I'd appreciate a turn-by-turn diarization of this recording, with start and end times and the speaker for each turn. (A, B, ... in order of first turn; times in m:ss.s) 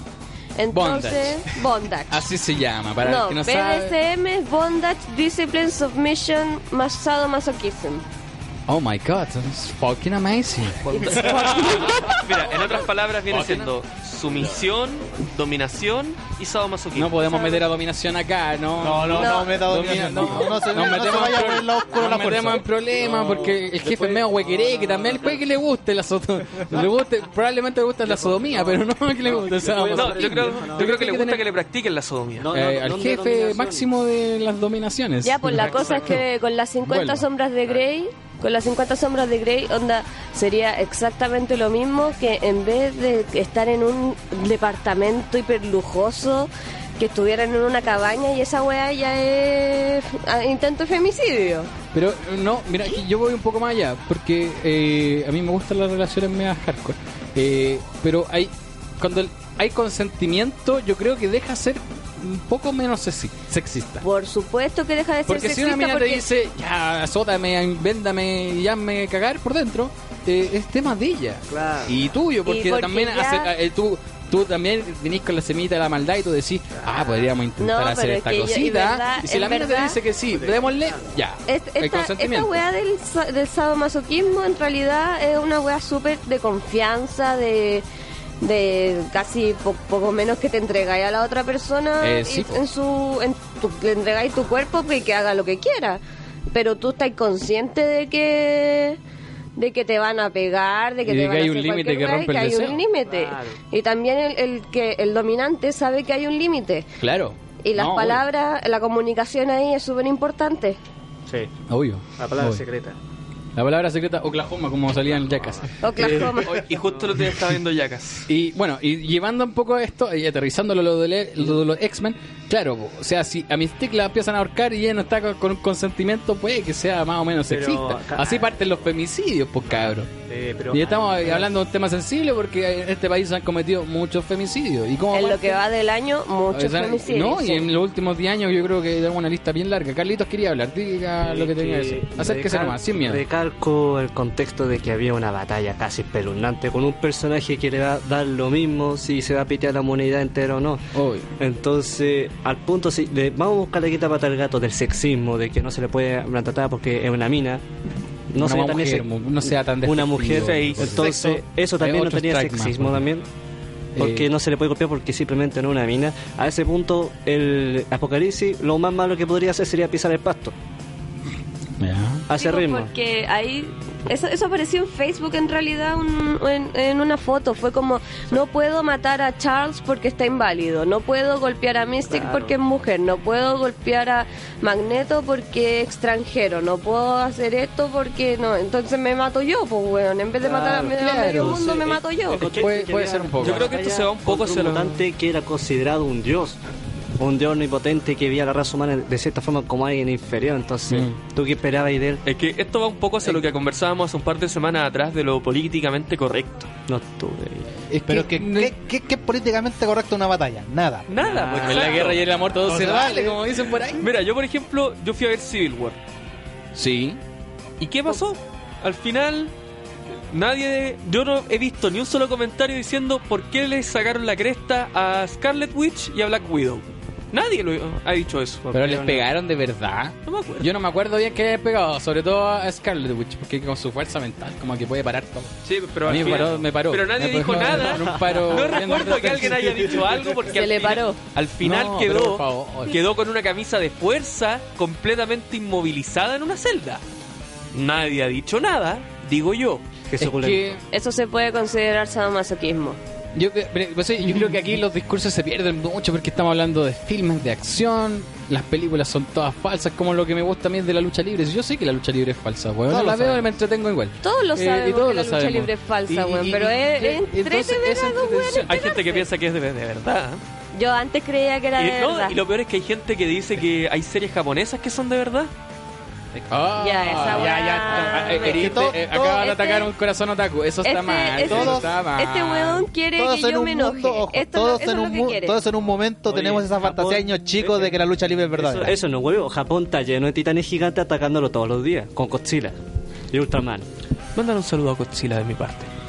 0:00.6-0:02.3 A
0:00.7-0:04.0 B
0:03.0-0:08.0 A
0:08.7-0:12.5 B
0:10.9-0:12.0 A
0:12.0-0:17.2 C
0:13.3-0:13.7 B
0:17.0-0:31.4 B
0:17.3-0:17.6 A
0:18.8-0:22.6 D
0:19.2-0:19.6 A
0:23.0-0:25.4 E
0:28.0-0:31.1 E
0:29.9-0:32.5 C
0:32.4-0:33.9 E
0:32.5-0:36.2 B
0:35.2-0:51.7 A
0:35.6-0:36.2 C
0:35.9-0:36.2 E
0:36.8-0:37.3 B
0:51.9-1:04.0 B
1:04.0-1:06.2 A
1:05.3-1:22.6 B
1:11.5-1:12.0 E
1:12.5-1:13.5 A
1:16.8-1:17.3 E
1:17.6-1:20.0 A
1:20.3-1:21.1 E
1:21.5-1:27.8 A
1:28.4-1:36.0 A
1:32.0-1:32.7 B
1:36.5-1:39.0 A
1:39.6-1:46.9 A
1:41.0-1:42.8 B
1:43.0-1:43.6 E
1:47.0-1:48.2 B
1:47.6-1:50.8 A
1:51.7-1:52.6 B
1:52.2-1:53.0 E
1:53.6-1:56.6 B
1:55.8-1:56.6 A
1:56.4-1:58.3 C
1:56.9-1:57.2 E
1:58.3-2:10.1 B
2:07.5-2:08.5 E
2:09.6-2:11.5 E
2:10.7-2:15.6 B
2:15.1-2:17.7 A
2:16.5-2:23.3 B
2:21.2-2:30.8 E
2:30.9-2:31.3 B
2:31.4-2:37.6 E
2:38.3-2:43.3 E
2:38.4-2:43.1 B
2:40.4-2:41.2 C
2:44.0-2:44.3 B
2:44.0-2:50.6 E
2:51.8-2:52.3 B
2:52.3-2:52.9 E
2:52.4-3:12.6 A
3:02.1-3:02.6 E
3:10.4-3:16.6 E
3:11.0-3:11.7 B
3:12.3-3:13.7 B
3:13.4-3:15.0 C
3:17.2-3:22.2 E
3:20.9-3:21.2 B
3:22.2-3:26.7 C
3:26.9-3:27.7 E
3:27.9-3:28.7 B
3:28.1-3:31.1 D
3:31.1-3:32.2 C
3:31.2-3:32.1 E
3:31.6-3:34.1 B
3:32.6-3:33.8 D
3:34.0-3:36.0 C
3:36.7-3:37.2 B
3:37.8-3:39.5 C
3:40.3-3:48.6 C
3:48.6-3:49.3 E
3:48.7-4:00.0 B
3:50.2-3:50.7 C
3:55.6-4:07.0 C
3:58.0-3:58.6 E
4:00.5-4:01.2 A
4:01.6-4:03.0 B
4:07.7-4:09.8 C
4:10.1-4:10.8 E
4:10.2-4:10.8 B
4:10.9-4:13.0 A
4:13.4-4:28.8 B
4:22.9-4:23.5 D
4:24.2-4:29.3 A
4:28.7-4:30.4 C
4:30.7-4:32.4 A
4:31.8-4:35.5 C
4:36.5-4:42.9 B
4:36.8-4:39.9 A
4:37.2-4:39.5 D
4:40.8-4:45.6 A
4:41.4-4:41.9 D
4:43.2-4:49.0 D
4:46.3-4:48.0 E
4:48.5-4:52.8 E
4:53.3-4:53.9 E
4:54.4-4:55.9 C